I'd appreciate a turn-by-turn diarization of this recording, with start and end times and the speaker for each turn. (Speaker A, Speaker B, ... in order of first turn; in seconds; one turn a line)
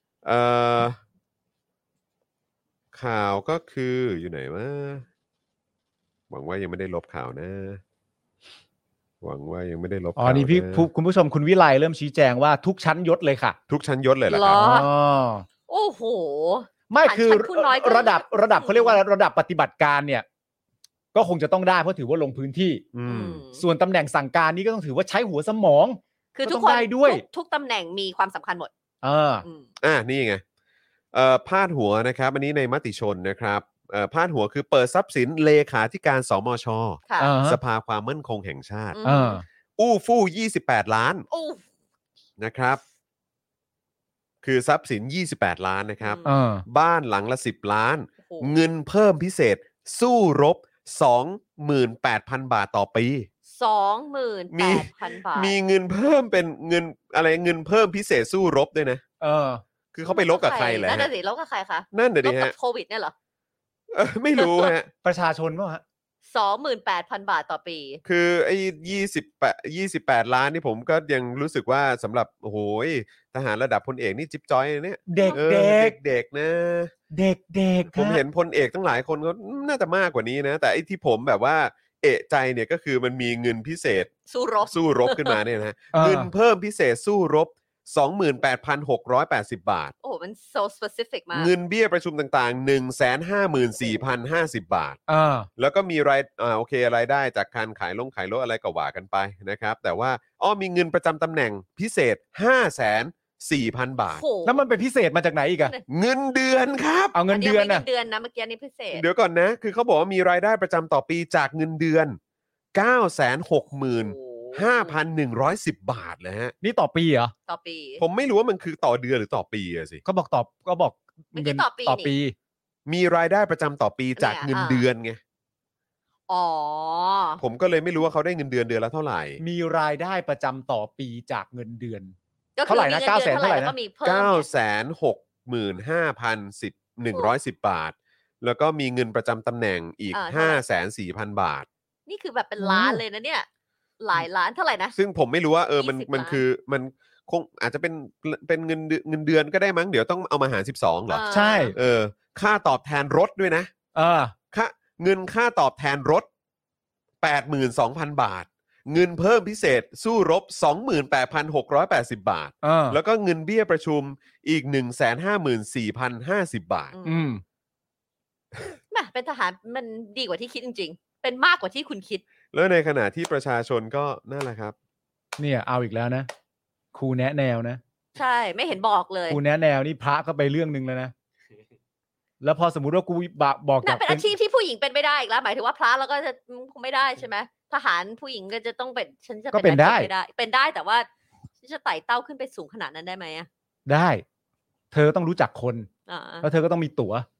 Speaker A: 0.2-1.0
Speaker A: 2.9-5.1
Speaker A: 6.3-7.8
Speaker A: 9.2-10.9
Speaker B: 10.2-13.6
Speaker A: 13.7-14.7
Speaker C: 14.3-14.9
Speaker B: 14.6-15.5
Speaker C: 15.7-19.0
Speaker B: 16.9-20.2
Speaker B: 21.1-22.8
Speaker A: 22.9-23.4
Speaker C: 23.1-23.6
Speaker B: 23.6-27.2
Speaker C: 26.4-28.7
Speaker B: 29.0-29.4
Speaker A: 29.8-30.4
Speaker A: 31.1-39.0
Speaker C: 37.1-37.3
Speaker B: 37.2-37.6
Speaker C: 38.9-39.4
Speaker B: 39.0-39.4
Speaker A: 39.8-41.2
Speaker C: 41.3-41.6
Speaker A: 42.4-42.8
Speaker A: 44.4-53.3
Speaker C: 46.0-46.3
Speaker B: 46.2-46.6
Speaker C: 48.2-48.5
Speaker C: 53.5-55.5
Speaker A: 54.5-59.0
Speaker B: 59.2-59.6
Speaker A: 59.9-61.1
Speaker C: 60.0-63.1
Speaker A: 61.9-62.5
Speaker A: 63.9-64.9
Speaker C: 64.4-64.7
Speaker B: 65.0-65.8
Speaker C: 66.3-68.0
Speaker A: 68.0-76.9
Speaker B: 75.1-76.0
Speaker B: 77.1-78.2
Speaker A: 77.9-84.1
Speaker C: 84.3-85.4
Speaker A: 84.6-89.9
Speaker B: 85.9-86.3
Speaker C: 90.0-91.5
Speaker A: 91.3-95.0
Speaker B: 95.1-95.5
Speaker A: 95.6-104.2
Speaker C: 104.1-104.6
Speaker B: 104.5-105.7
Speaker A: 105.9-107.2
Speaker B: 107.1-107.8
Speaker C: 107.3-109.0
Speaker A: 108.9-112.2
Speaker A: 112.8-116.5
Speaker C: 113.9-115.0
Speaker B: 116.6-117.3
Speaker C: 117.5-118.0
Speaker A: 118.0-120.0
Speaker B: 120.0-122.3
Speaker C: 121.3-122.1
Speaker A: 122.9-125.2
Speaker C: 124.2-124.8
Speaker C: 126.3-127.4
Speaker A: 127.4-129.4
Speaker B: 129.4-132.2
Speaker C: 132.6-134.5
Speaker B: 132.7-133.7
Speaker A: 134.0-141.7
Speaker C: 140.1-140.6
Speaker C: 142.1-143.5
Speaker B: 142.6-143.0
Speaker C: 144.0-144.9
Speaker A: 144.9-153.7
Speaker C: 145.8-146.4
Speaker C: 151.1-151.8
Speaker B: 151.3-151.8
Speaker B: 153.9-154.3
Speaker A: 154.5-156.3
Speaker A: 157.2-166.9
Speaker B: 162.6-163.0
Speaker C: 166.9-167.3
Speaker B: 167.1-167.4
Speaker C: 168.9-172.2
Speaker A: 172.5-174.8
Speaker B: 175.4-176.3
Speaker B: 176.9-177.8
Speaker C: 178.2-179.4
Speaker B: 179.3-181.1
Speaker B: 182.4-184.3
Speaker C: 183.8-191.1
Speaker B: 189.5-190.1
Speaker C: 191.6-193.5
Speaker B: 193.9-194.2
Speaker B: 194.9-195.9
Speaker C: 196.1-196.5
Speaker B: 196.4-197.3